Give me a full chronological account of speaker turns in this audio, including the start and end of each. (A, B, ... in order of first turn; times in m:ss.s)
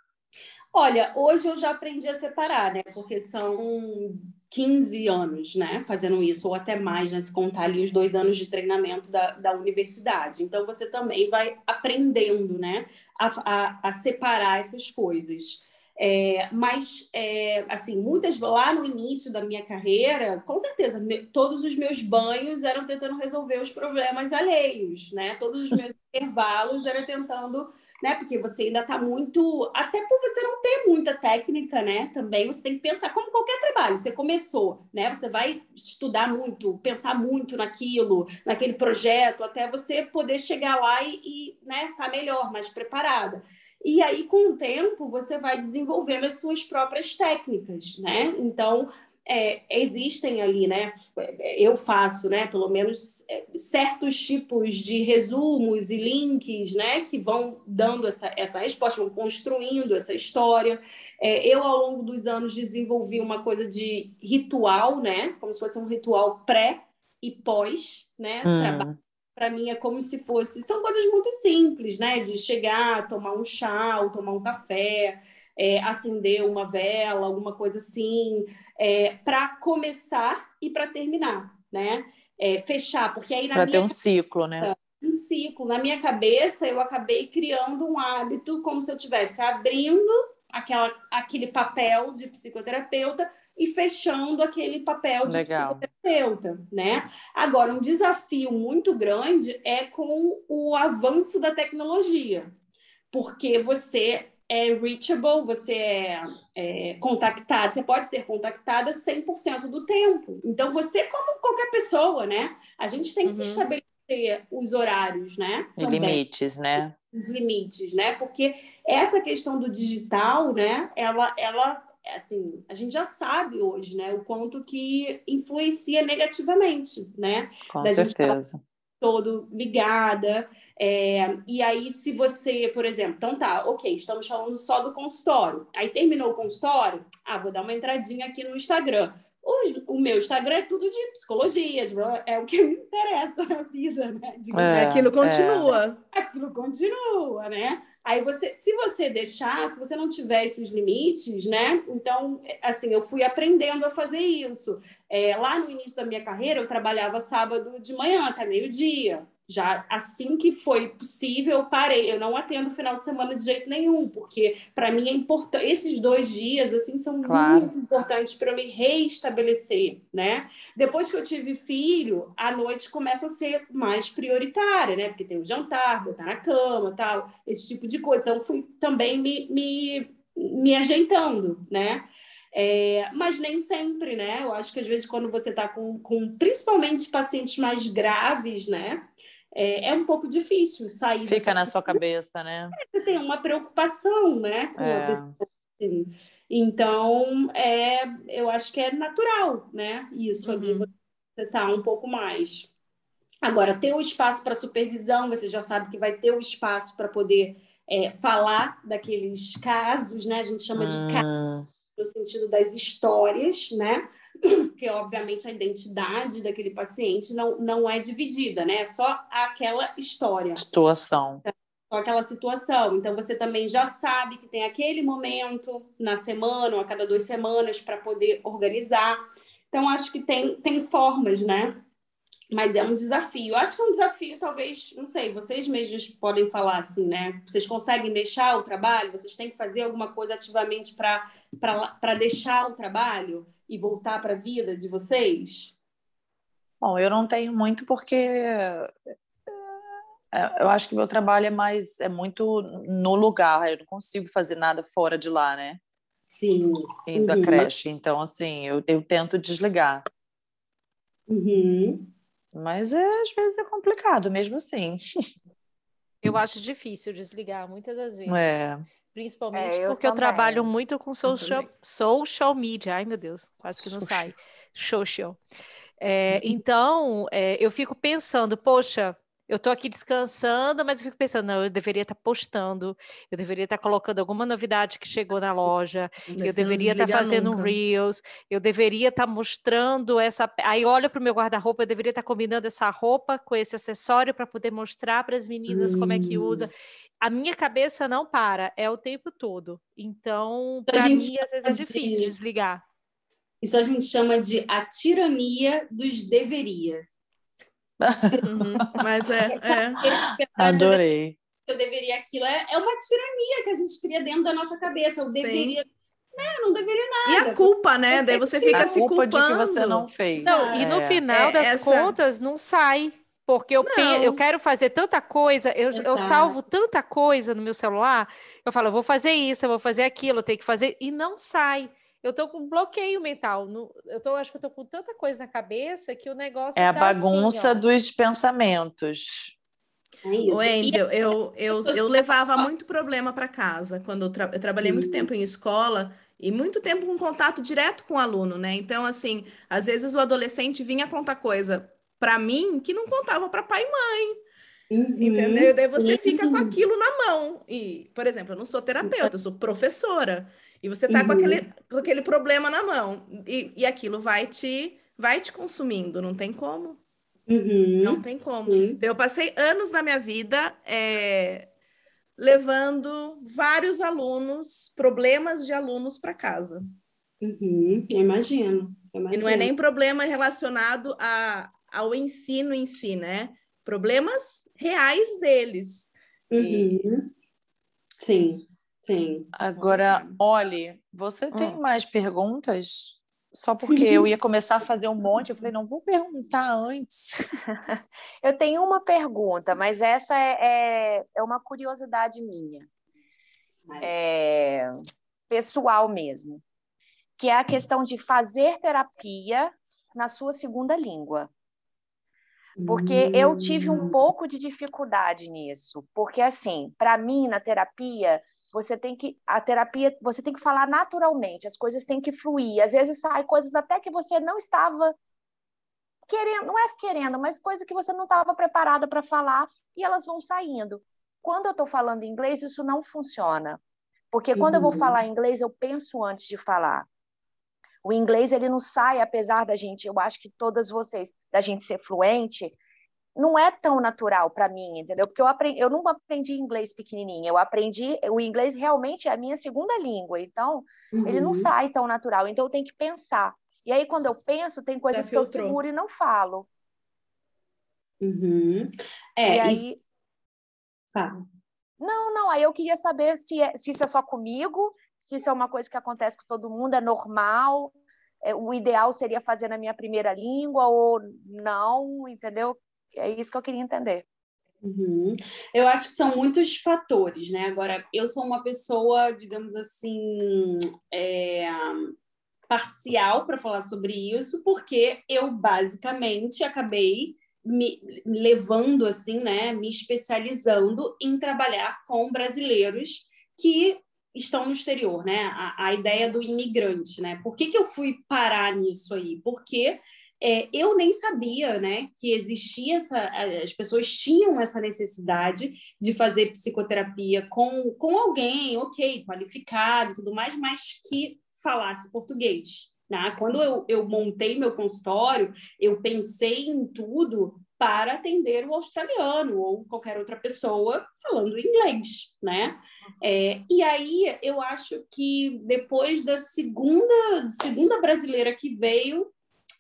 0:00.7-1:24.0 A
1:08.4-1:09.0 B
1:23.5-1:24.7 B
1:24.6-1:42.5 A
1:35.3-1:35.8 B
1:43.1-1:56.2 A
1:53.3-1:53.7 C
1:55.8-1:57.0 B
1:57.1-2:08.4 A
2:07.7-2:08.6 B
2:09.0-2:24.9 A
2:24.5-2:25.8 B
2:24.7-2:26.0 C
2:26.1-3:12.0 A
2:47.2-2:47.7 B
3:11.3-3:12.8 B
3:12.8-3:22.7 A
3:14.8-3:15.3 B
3:20.4-3:20.9 C
3:23.4-3:31.3 A
3:30.8-3:31.7 B
3:32.0-3:40.6 A
3:40.6-3:41.4 B
3:41.5-3:49.2 A
3:49.7-3:51.8 A
3:52.5-4:05.8 A
4:06.8-4:08.9 B
4:10.3-4:15.8 B
4:16.3-4:17.7 A
4:17.1-4:20.0 B
4:21.3-4:22.1 A
4:22.5-4:25.0 B
4:26.2-4:35.4 D
4:28.3-4:28.8 B
4:29.5-4:30.7 E
4:31.3-4:31.7 C
4:33.8-4:34.3 B
4:36.0-5:02.8 D
4:46.3-4:47.8 C
4:55.7-4:56.7 A
5:00.9-5:02.3 A
5:03.6-5:07.0 A
5:08.0-5:09.0 B
5:08.4-5:10.1 C
5:10.0-5:11.0 A
5:10.6-5:11.4 B
5:11.7-5:19.0 A
5:15.4-5:15.8 C
5:17.3-5:20.1 C
5:18.7-5:21.2 B
5:20.4-5:20.9 A
5:20.4-5:37.8 D
5:21.3-5:22.1 C
5:23.8-5:24.2 C
5:25.9-5:26.6 A
5:36.8-5:39.6 B
5:40.2-5:42.7 A
5:40.4-5:54.4 C
5:44.8-5:45.3 A
5:54.9-5:56.8 A
5:55.2-6:07.0 C
5:59.0-5:59.3 A
6:01.1-6:01.7 A
6:07.5-6:09.0 A
6:08.0-6:11.7 C
6:12.4-6:16.8 C
6:17.4-6:19.7 A
6:19.3-6:26.1 C
6:26.5-6:27.3 A
6:28.2-6:30.4 A
6:29.5-6:37.5 B
6:31.5-6:31.8 E
6:33.9-6:34.3 A
6:38.4-6:42.9 E
6:44.0-6:44.9 E
6:45.5-6:46.6 E
6:47.4-6:51.5 E
6:52.8-6:54.2 A
6:52.9-7:05.2 E
7:06.3-7:13.8 E
7:14.3-7:17.1 E
7:14.6-7:15.2 A
7:18.0-7:22.8 E
7:23.4-7:36.7 E
7:31.1-7:31.7 A
7:35.1-7:35.8 C
7:38.2-7:39.8 A
7:39.5-7:40.0 E
7:41.2-7:41.4 A
7:42.0-7:54.2 E
7:54.8-8:02.1 A
8:02.7-8:49.3 A